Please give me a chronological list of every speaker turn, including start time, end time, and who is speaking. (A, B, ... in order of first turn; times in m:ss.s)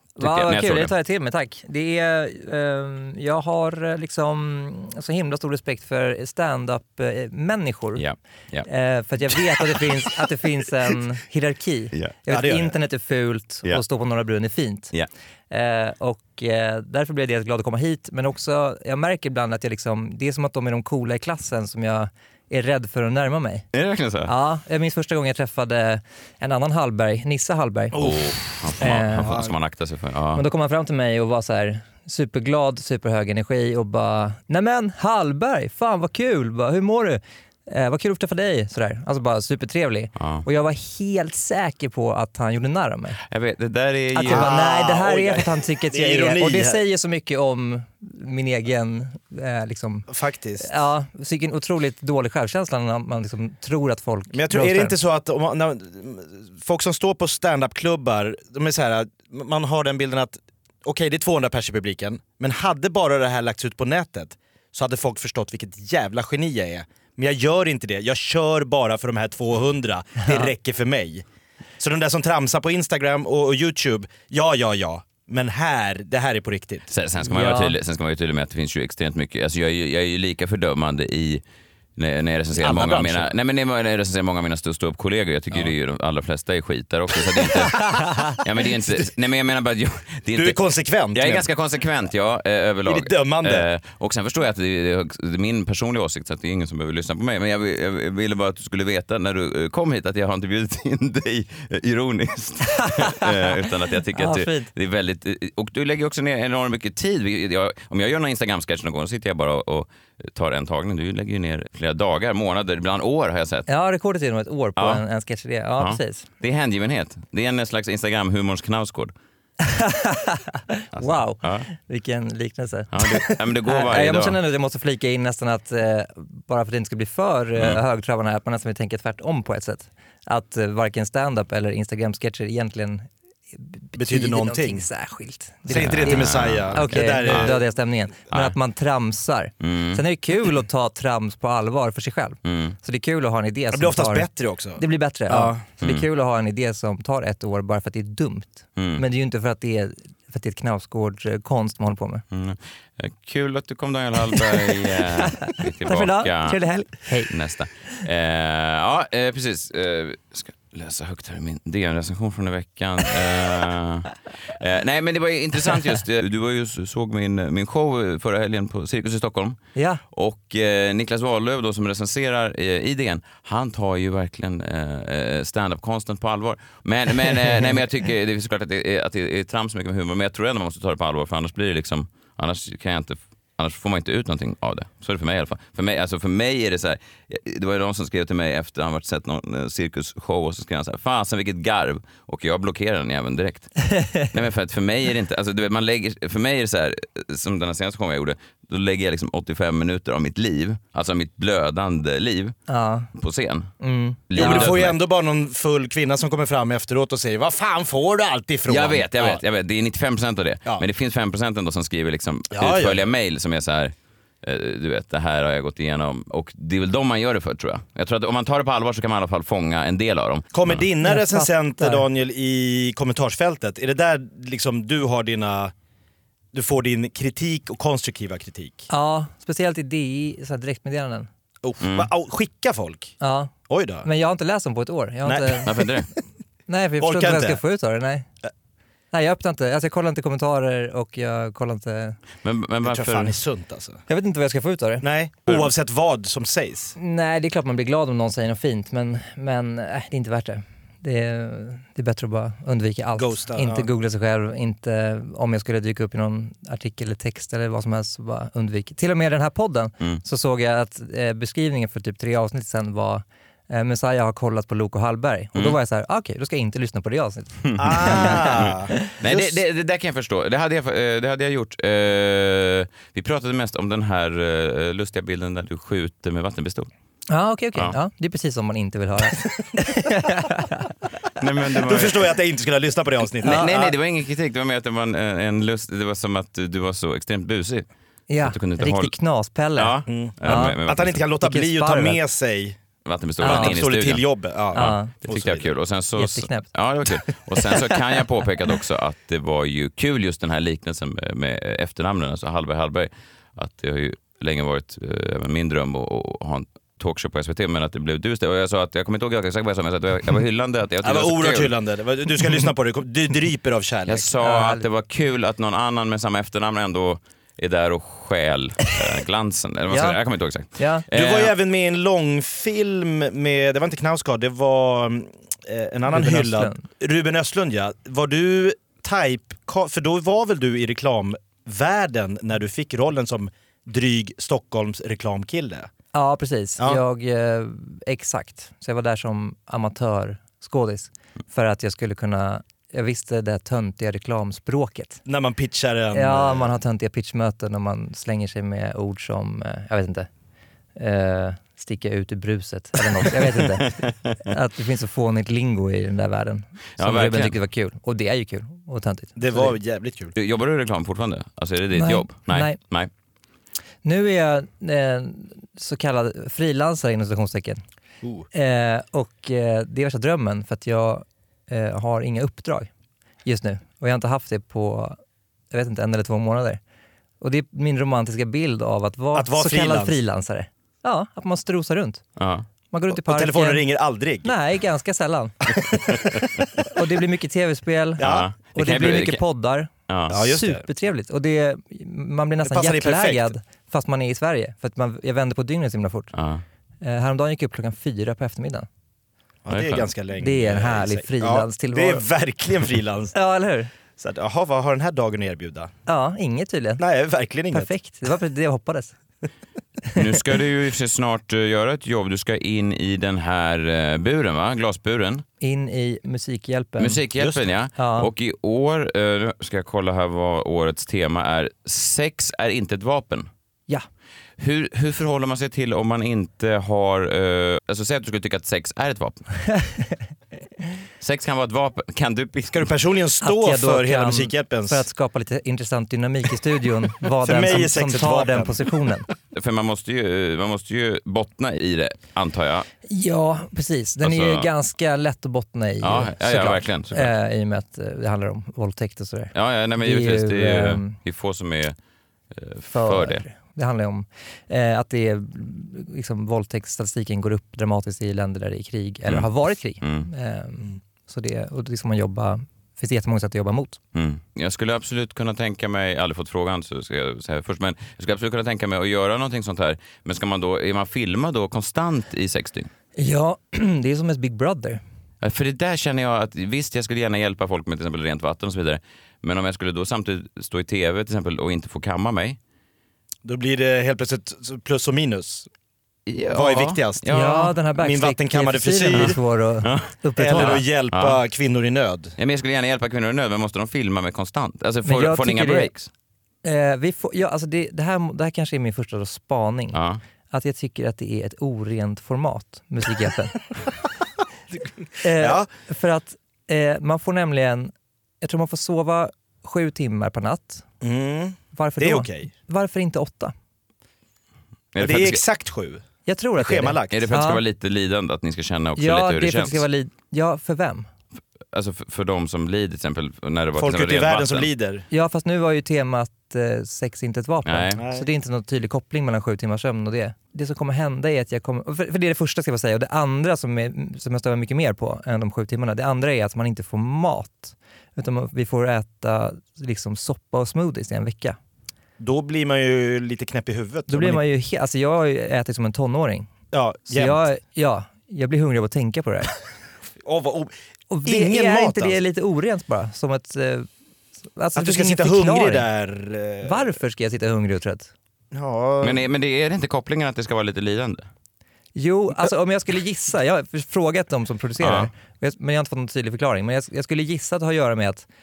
0:00.2-0:08.0 A
0:00.2-0:00.9 B
0:08.0-0:08.7 B
0:08.7-0:14.9 A
0:12.3-0:12.7 C
0:15.5-0:23.7 A
0:23.7-0:24.3 B
0:24.2-0:28.1 A
0:28.0-0:30.4 B
0:28.8-0:29.5 A
0:30.4-0:43.2 A
0:40.2-0:40.4 B
0:43.3-0:44.5 B
0:44.2-0:50.1 A
0:44.2-0:46.8 C
0:50.1-0:50.7 C
0:50.6-0:55.0 A
0:54.3-1:11.2 C
1:11.8-1:16.9 C
1:16.9-1:21.4 B
1:17.3-1:17.8 A
1:22.0-1:30.6 B
1:22.6-1:23.3 C
1:30.3-1:31.5 C
1:31.1-1:53.7 B
1:32.8-1:33.7 C
1:42.8-1:43.3 A
1:44.2-1:44.7 A
1:53.7-1:56.2 A
1:55.8-1:59.1 B
1:59.6-2:32.2 A
2:01.0-2:01.7 B
2:02.9-2:04.4 B
2:14.0-2:14.9 C
2:15.7-2:17.6 C
2:15.7-2:17.5 B
2:19.6-2:20.0 B
2:22.4-2:22.8 B
2:23.7-2:25.6 C
2:25.8-2:26.1 B
2:28.8-2:29.0 B
2:32.3-2:36.6 B
2:35.2-2:37.3 A
2:37.3-2:49.6 B
2:49.8-2:50.0 A
2:50.1-3:22.6 B
3:13.9-3:14.3 A
3:22.7-3:23.1 A
3:23.1-3:23.7 B
3:23.8-3:24.7 A
3:24.3-3:25.0 B
3:24.4-3:29.4 C
3:28.7-3:40.8 B
3:32.5-3:33.0 C
3:40.5-3:45.7 C
3:41.0-3:42.0 A
3:46.5-3:48.9 C
3:48.9-3:51.3 A
3:51.6-3:53.2 C
3:51.8-3:52.1 B
3:53.2-3:53.5 A
3:53.7-3:54.1 C
3:54.0-3:55.7 A
3:55.2-3:55.9 C
3:55.6-3:56.1 B
3:56.7-3:58.3 A
3:57.0-3:57.6 C
3:59.1-4:02.2 A
4:02.4-4:03.4 B
4:02.8-4:04.0 C
4:04.1-4:05.1 A
4:05.0-4:07.0 C
4:07.0-4:28.4 A
4:13.2-4:13.9 C
4:27.6-4:36.9 B
4:27.8-4:29.6 C
4:37.3-4:40.9 A
4:41.4-4:42.3 B
4:41.8-4:44.0 C
4:43.4-4:47.9 B
4:43.4-4:43.7 A
4:48.3-4:50.8 A
4:48.4-4:49.1 B
4:49.8-4:51.2 B
4:50.1-4:52.8 C
4:51.4-4:52.2 A
4:53.0-5:11.7 B
4:53.4-4:55.7 C
4:53.4-4:53.8 A
4:54.8-4:55.1 A
4:56.2-4:56.7 A
5:11.0-5:14.3 C
5:14.1-5:21.5 B
5:14.4-5:14.8 A
5:19.9-5:20.2 A
5:20.8-5:21.0 A
5:21.1-5:35.9 C
5:26.1-5:26.8 A
5:36.1-5:45.2 A
5:45.3-5:46.8 C
5:46.1-5:50.3 A
5:51.0-5:53.9 A
5:53.4-5:54.4 B
5:54.5-5:59.7 A
5:57.0-5:57.6 B
5:59.4-6:00.3 C
6:00.4-6:03.1 B
6:02.0-6:02.8 A
6:04.0-6:07.8 A
6:08.5-6:12.9 A
6:13.4-6:15.2 A
6:15.7-6:16.8 A
6:17.4-6:22.2 A
6:19.3-6:20.2 C
6:22.4-6:22.7 B
6:22.9-6:23.8 A
6:23.1-6:24.6 C
6:24.4-6:25.7 A
6:26.9-6:28.2 A
6:28.2-6:28.5 C
6:28.2-6:29.4 B
6:28.8-6:36.3 A
6:30.1-6:30.4 B
6:30.3-6:30.8 C
6:32.6-6:33.5 C
6:36.3-6:36.6 B
6:37.0-6:38.9 A
6:39.7-6:43.3 C
6:39.7-6:40.1 B
6:40.4-6:42.3 A
6:43.3-6:43.9 A
6:44.2-6:45.9 C
6:46.1-6:47.0 A
6:47.0-6:47.9 C
6:47.7-6:49.2 A
6:50.2-6:55.4 B
6:55.6-6:57.2 A
6:57.0-7:03.5 B
6:57.4-6:57.7 C
6:58.0-6:58.3 A
7:04.6-7:09.5 B
7:11.2-7:12.9 B
7:12.7-7:15.1 C
7:13.4-7:19.3 A
7:17.4-7:18.9 C
7:19.5-7:22.9 B
7:23.1-7:31.2 A
7:24.2-7:24.7 B
7:26.0-7:27.3 B
7:29.5-7:32.0 B
7:32.5-7:33.4 B
7:32.9-7:44.0 A
7:40.0-7:40.3 B
7:44.2-7:52.9 B
7:53.2-7:55.0 A
7:55.4-8:02.6 B
8:03.4-8:05.7 C
8:06.3-8:07.7 B
8:06.5-8:07.3 C
8:07.3-8:10.9 A
8:08.0-8:09.4 C
8:09.8-8:11.4 B
8:10.4-8:12.4 C
8:12.4-8:16.1 B
8:15.1-8:15.9 A
8:16.6-8:20.0 A
8:19.9-8:20.2 B
8:20.5-8:23.7 A
8:25.2-8:30.8 A
8:25.3-8:25.7 C
8:31.0-8:32.5 C
8:31.7-8:33.5 A
8:34.9-8:35.4 B
8:35.0-8:36.0 C
8:36.3-8:37.6 A
8:36.6-8:37.2 C
8:37.1-8:39.8 B
8:39.0-8:41.1 A
8:41.7-8:44.7 B
8:43.8-8:45.1 C
8:45.1-9:01.6 A
8:47.7-8:48.0 B
8:48.0-8:48.3 C
9:02.2-9:04.4 C
9:04.1-9:06.5 A
9:06.7-9:07.5 C
9:07.1-9:09.5 A
9:10.2-9:10.7 C
9:11.1-9:13.9 A
9:11.2-9:12.2 C
9:14.6-9:15.9 A
9:14.7-9:17.0 C
9:16.6-9:18.1 A
9:18.5-9:19.3 C
9:19.0-9:21.3 B
9:22.0-9:28.3 A
9:24.8-9:25.1 B